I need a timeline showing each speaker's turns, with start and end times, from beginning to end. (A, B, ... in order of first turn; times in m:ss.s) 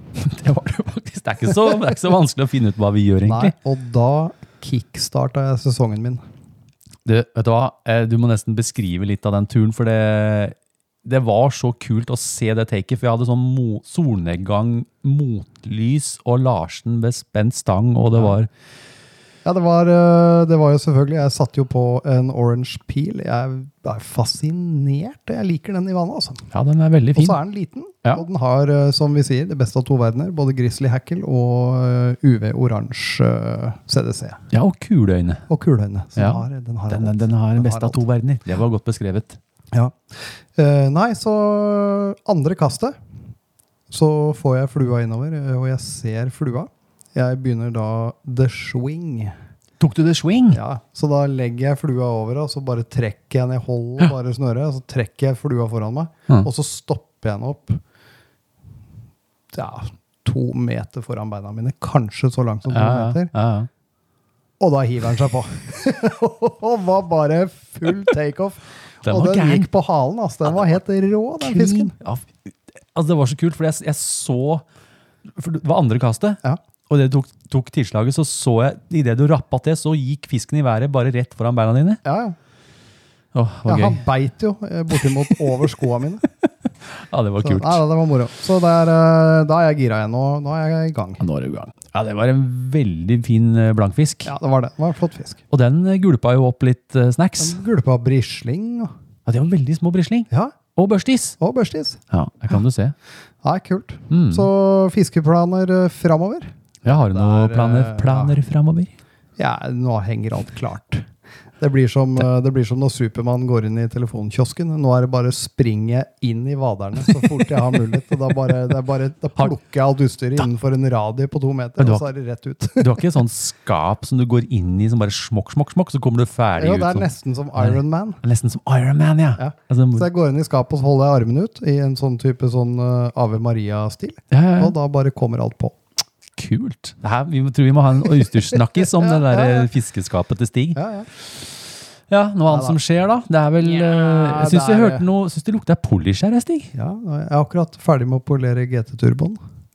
0:00.2-0:03.5 A
0:03.2-0:06.2 B
0:07.0-0:18.5 A
0:19.4-0:26.4 B
0:26.5-0:27.4 A
0:27.1-0:34.4 B
0:34.5-0:35.4 A
0:35.5-0:38.0 B
0:36.2-0:39.4 A
0:39.7-0:40.0 B
0:40.5-0:43.0 B
0:43.9-0:49.3 B
0:49.8-0:50.6 A
0:50.5-0:57.8 B
0:59.5-1:03.3 B
1:02.7-1:03.7 A
1:04.6-1:11.9 B
1:09.0-1:09.7 A
1:11.4-1:14.6 A
1:15.3-1:22.0 A
1:22.0-1:22.4 B
1:23.3-1:24.0 A
1:23.6-1:26.2 B
1:26.4-1:27.8 A
1:27.4-1:31.2 B
1:31.2-1:34.3 A
1:34.2-1:35.4 B
1:35.5-1:37.6 A
1:37.4-1:38.9 B
1:39.2-1:41.4 A
1:40.3-1:40.6 B
1:41.4-1:42.0 B
1:42.1-1:42.9 A
1:43.4-1:48.4 B
1:44.1-1:44.5 A
1:46.8-1:48.9 A
1:49.4-1:51.0 B
1:51.6-2:03.1 B
2:01.8-2:02.1 A
2:02.7-2:10.1 A
2:06.6-2:08.2 B
2:09.4-2:15.7 B
2:14.3-2:14.7 A
2:16.4-2:20.8 A
2:18.6-2:19.7 B
2:20.7-2:21.1 B
2:22.1-2:26.7 A
2:22.5-2:22.8 B
2:23.6-2:25.0 B
2:26.7-2:29.4 B